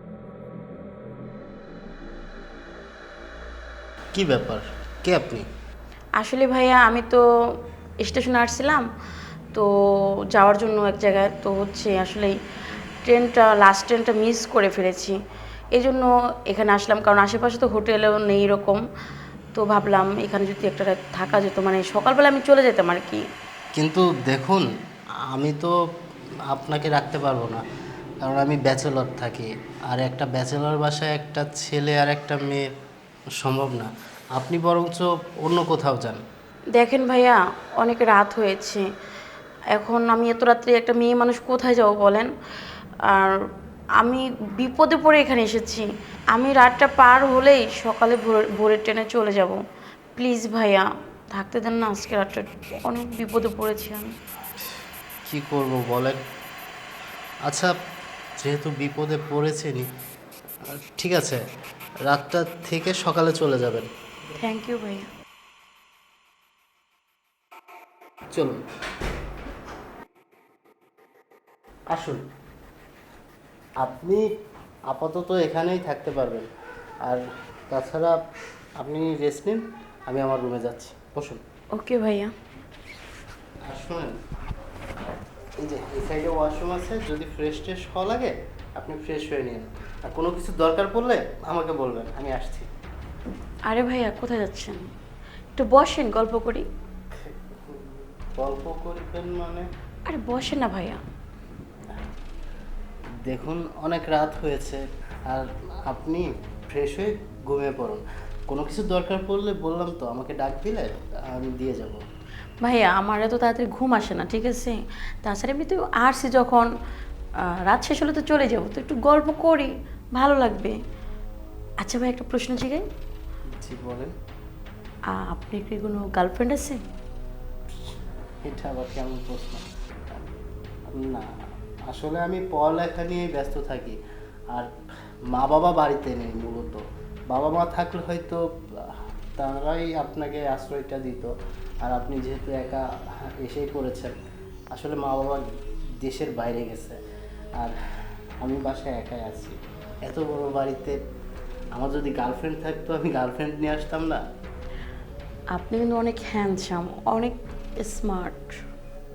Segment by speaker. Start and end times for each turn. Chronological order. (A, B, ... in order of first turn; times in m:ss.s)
0:04.1-0:05.5 A
0:06.2-0:07.2 B
0:08.0-0:08.8 B
0:10.3-0:12.4 B
0:13.0-0:15.2 B
0:15.7-0:18.8 B
0:19.5-0:23.2 B
0:23.7-0:24.7 A
0:25.3-0:25.8 A
0:26.5-0:27.6 A
0:28.2-0:32.6 A
0:33.4-0:36.2 A
0:36.8-0:38.8 B
0:39.7-0:42.3 B
0:43.0-0:43.4 B
0:44.0-0:49.6 B
0:50.2-0:54.1 B
0:54.6-0:56.2 A
0:57.4-0:57.7 A
0:58.4-0:59.9 A
1:00.6-1:01.4 A
1:02.1-1:03.9 A
1:04.3-1:05.0 B
1:08.3-1:08.6 A
1:11.9-1:12.2 A
1:13.8-1:14.3 A
1:14.9-1:16.5 A
1:17.0-1:18.2 A
1:18.8-1:21.4 A
1:21.8-1:22.3 B
1:23.7-1:24.2 A
1:25.6-1:32.7 A
1:33.7-1:34.8 B
1:35.5-1:36.6 B
1:37.1-1:39.7 A
1:40.1-1:41.0 B
1:43.3-1:52.0 A
1:52.6-1:56.7 B
1:57.6-2:00.8 B
2:01.8-2:02.8 B
2:03.6-2:04.1 A
2:05.1-2:06.8 B
2:07.7-2:10.3 A
2:10.9-2:11.3 A
2:11.9-2:14.0 A
2:15.3-2:21.3 A
2:21.8-2:24.2 A
2:24.7-2:25.5 A
2:26.0-2:27.0 A
2:27.6-2:31.0 A
2:31.7-2:34.2 A
2:35.5-2:38.6 B